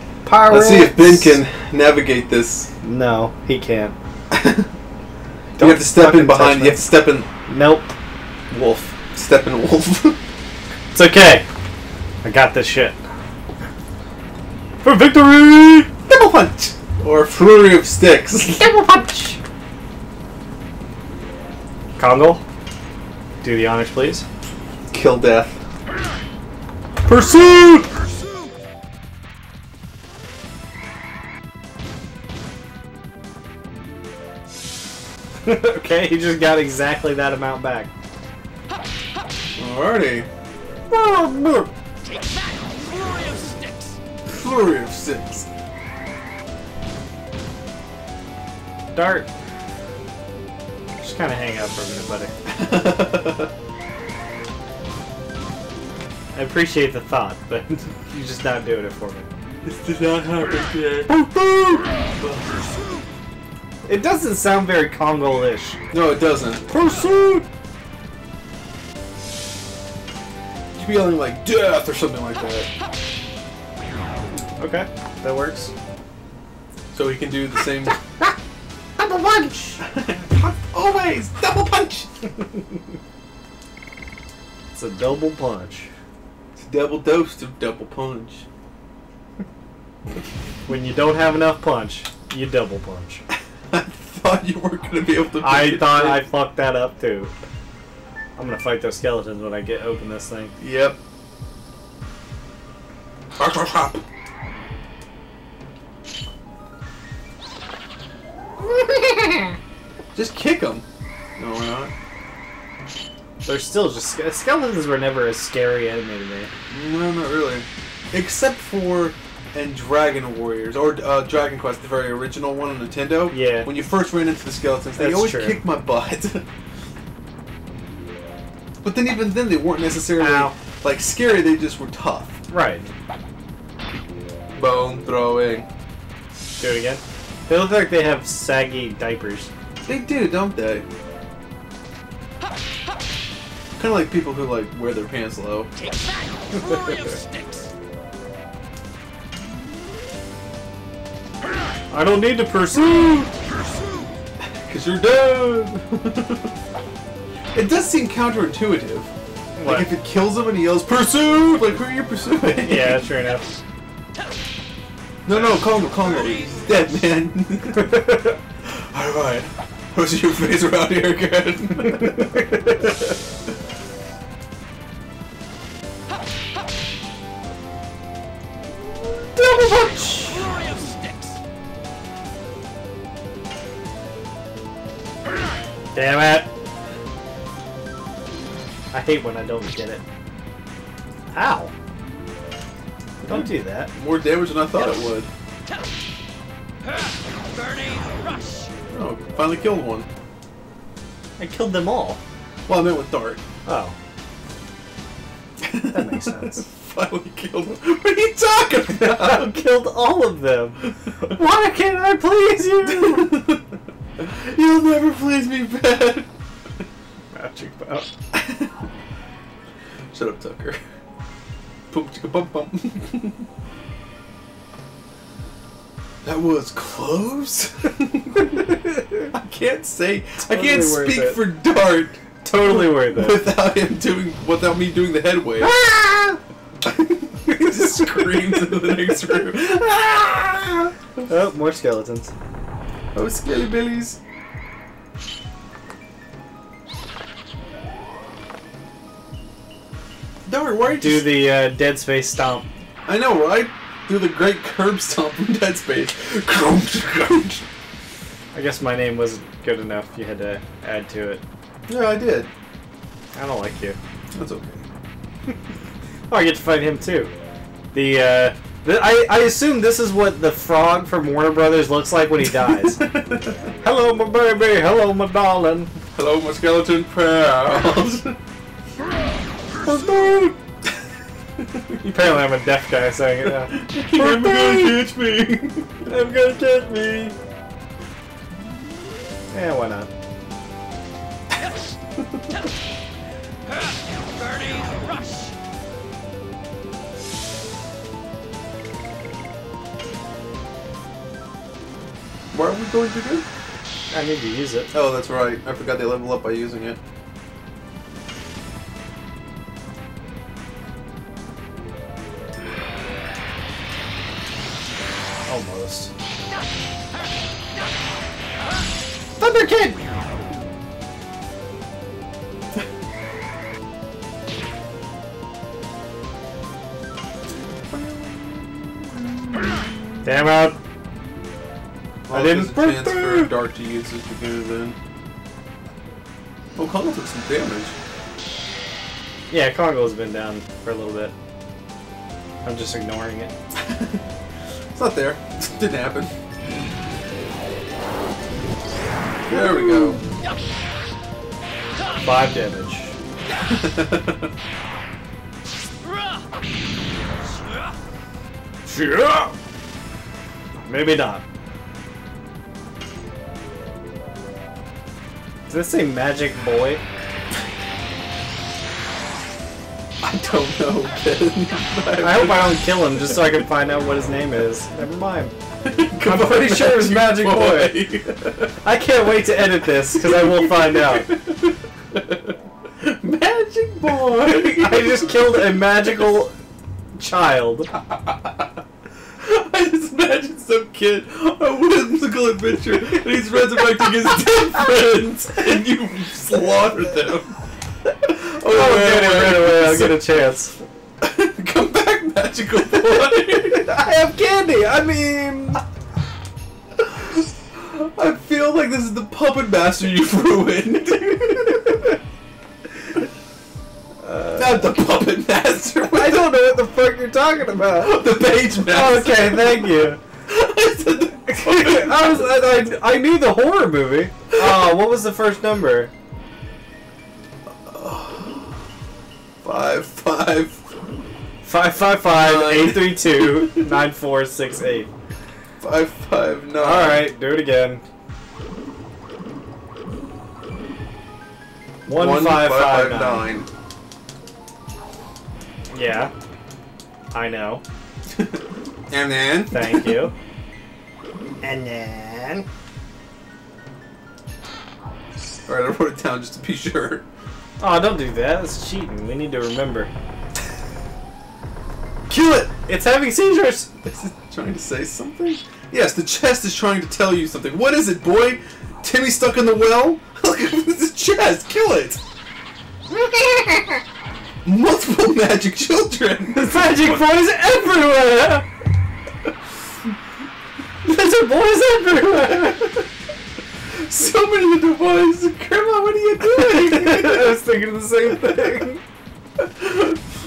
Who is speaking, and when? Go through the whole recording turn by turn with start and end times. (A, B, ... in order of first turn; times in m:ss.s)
0:00.2-0:01.4 A
0:00.5-0:02.7 B
0:02.8-0:04.0 A
0:04.3-0:04.7 B
0:05.6-0:06.9 A
0:05.6-0:07.3 B
0:07.4-0:07.9 A
0:08.5-0:10.2 B
0:10.9-0:11.4 A
0:12.2-0:13.0 A
0:14.8-0:15.9 A
0:16.1-0:18.7 B
0:18.6-0:19.4 A
0:22.0-0:22.4 A
0:23.4-0:24.2 A
0:24.9-0:25.6 B
0:27.1-0:27.9 A
0:35.4-0:37.9 A
0:39.6-0:40.3 B
0:40.9-0:41.7 A
0:42.0-0:44.0 C
0:44.3-0:45.5 B
0:49.0-0:49.3 A
0:51.0-0:52.3 A
0:52.5-0:53.5 B
0:56.3-0:59.3 A
0:59.6-1:02.6 B
1:01.1-1:01.6 A
1:03.9-1:05.8 A
1:05.9-1:06.6 B
1:06.7-1:07.5 A
1:10.8-1:12.7 B
1:14.6-1:15.7 A
1:16.9-1:18.0 B
1:17.9-1:18.3 A
1:19.0-1:19.8 A
1:19.8-1:22.1 B
1:24.7-1:25.9 A
1:26.6-1:28.4 B
1:30.7-1:33.2 A
1:33.7-1:36.3 B
1:35.4-1:37.3 A
1:38.4-1:40.5 A
1:40.6-1:41.0 B
1:43.4-1:44.0 B
1:48.6-1:49.6 A
1:50.2-1:50.8 B
1:51.4-1:51.9 B
1:53.4-1:56.5 A
1:56.7-2:06.4 B
2:03.3-2:03.7 A
2:05.0-2:05.6 A
2:08.8-2:12.4 B
2:10.2-2:10.6 A
2:12.5-2:12.9 A
2:14.5-2:15.7 B
2:16.6-2:19.5 A
2:19.9-2:20.9 B
2:23.8-2:25.7 B
2:25.8-2:27.7 C
2:31.9-2:33.3 A
2:33.7-2:34.0 C
2:34.4-2:36.5 B
2:37.5-2:39.1 B
2:39.6-2:39.9 A
2:39.6-2:43.0 B
2:42.5-2:43.4 A
2:45.3-2:52.5 B
2:45.8-2:46.5 C
2:47.8-2:48.4 A
2:52.0-2:52.9 A
2:59.3-3:00.5 A
3:00.1-3:01.4 C
3:05.9-3:06.5 A
3:08.9-3:10.0 A
3:11.3-3:11.7 A
3:13.2-3:15.3 B
3:13.3-3:13.9 A
3:16.8-3:18.7 C
3:18.9-3:20.1 B
3:21.4-3:22.2 A
3:22.7-3:23.4 B
3:23.6-3:24.0 A
3:25.6-3:29.6 B
3:25.9-3:26.6 A
3:29.0-3:33.4 A
3:32.9-3:33.6 B
3:34.2-3:36.3 B
3:37.3-3:38.1 A
3:38.3-3:38.7 B
3:40.1-3:40.8 B
3:41.9-3:43.5 B
3:46.2-3:55.8 B
3:48.7-3:49.0 A
3:50.4-3:51.4 A
3:52.4-3:53.4 A
3:55.6-3:56.4 A
3:56.8-4:00.1 B
3:57.5-4:02.3 A
4:03.2-4:04.2 B
4:10.5-4:11.4 B
4:11.0-4:12.7 A
4:13.1-4:17.6 B
4:18.5-4:21.4 A
4:21.9-4:22.5 B
4:23.3-4:24.0 A
4:24.3-4:24.8 B
4:26.3-4:27.3 A
4:27.9-4:33.1 A
4:33.0-4:33.6 B
4:33.8-4:35.9 A
4:36.2-4:38.4 B
4:39.8-4:40.6 A
4:41.8-4:42.3 B
4:42.0-4:45.0 A
4:43.7-4:46.1 B
4:46.1-4:47.4 A
4:49.5-4:50.1 A
4:52.2-4:52.4 B
4:53.7-4:55.5 C
5:02.5-5:03.5 B
5:04.1-5:04.9 A
5:04.9-5:07.0 B
5:15.5-5:16.1 A
5:19.4-5:20.0 A
5:27.9-5:30.2 B
5:30.2-5:30.8 A
5:32.3-5:35.0 B
5:32.3-5:33.5 A
5:36.8-5:37.9 B
5:39.5-5:41.3 A
5:42.6-5:43.5 A
5:43.8-5:44.2 B
5:44.9-5:46.3 B
5:49.5-5:50.2 B
5:49.5-5:50.3 A
5:52.2-5:53.2 A
5:53.6-5:54.5 B
5:56.0-5:56.4 C
5:57.5-5:57.9 C
5:58.9-5:59.6 A
6:00.8-6:01.4 A
6:05.7-6:07.0 A
6:10.2-6:13.3 B
6:12.2-6:15.5 A
6:15.8-6:18.7 B
6:16.2-6:18.0 A
6:18.8-6:21.3 A
6:20.1-6:25.7 B
6:24.7-6:26.5 A
6:27.1-6:27.9 A
6:29.4-6:37.6 B
6:38.2-6:40.2 B
6:38.6-6:40.8 A
6:41.2-6:43.9 B
6:43.7-6:45.8 A
6:47.0-6:52.1 B
6:54.2-6:55.0 A
6:54.6-6:56.5 B
6:56.1-7:00.2 A
6:58.0-6:59.9 B
7:00.5-7:02.4 B
7:01.5-7:06.1 A
7:07.9-7:08.7 B
7:09.6-7:10.8 B
7:11.6-7:15.1 A
7:12.2-7:13.9 B
7:15.8-7:17.3 B
7:16.8-7:18.0 A
7:22.1-7:23.5 A
7:22.1-7:23.7 B
7:25.9-7:26.3 A
7:27.3-7:27.8 A
7:29.1-7:30.2 B
7:29.7-7:30.3 A
7:31.6-7:32.7 A
7:35.7-7:37.3 B
7:37.8-7:40.1 A
7:42.3-7:42.7 B
7:42.3-7:43.9 A
7:44.0-7:52.2 B
7:53.1-7:54.0 A
7:54.6-7:57.2 B
7:56.6-7:58.7 A
8:01.0-8:03.0 A
8:03.9-8:07.6 B
8:06.4-8:09.0 A
8:08.3-8:08.7 B
8:09.8-8:10.2 B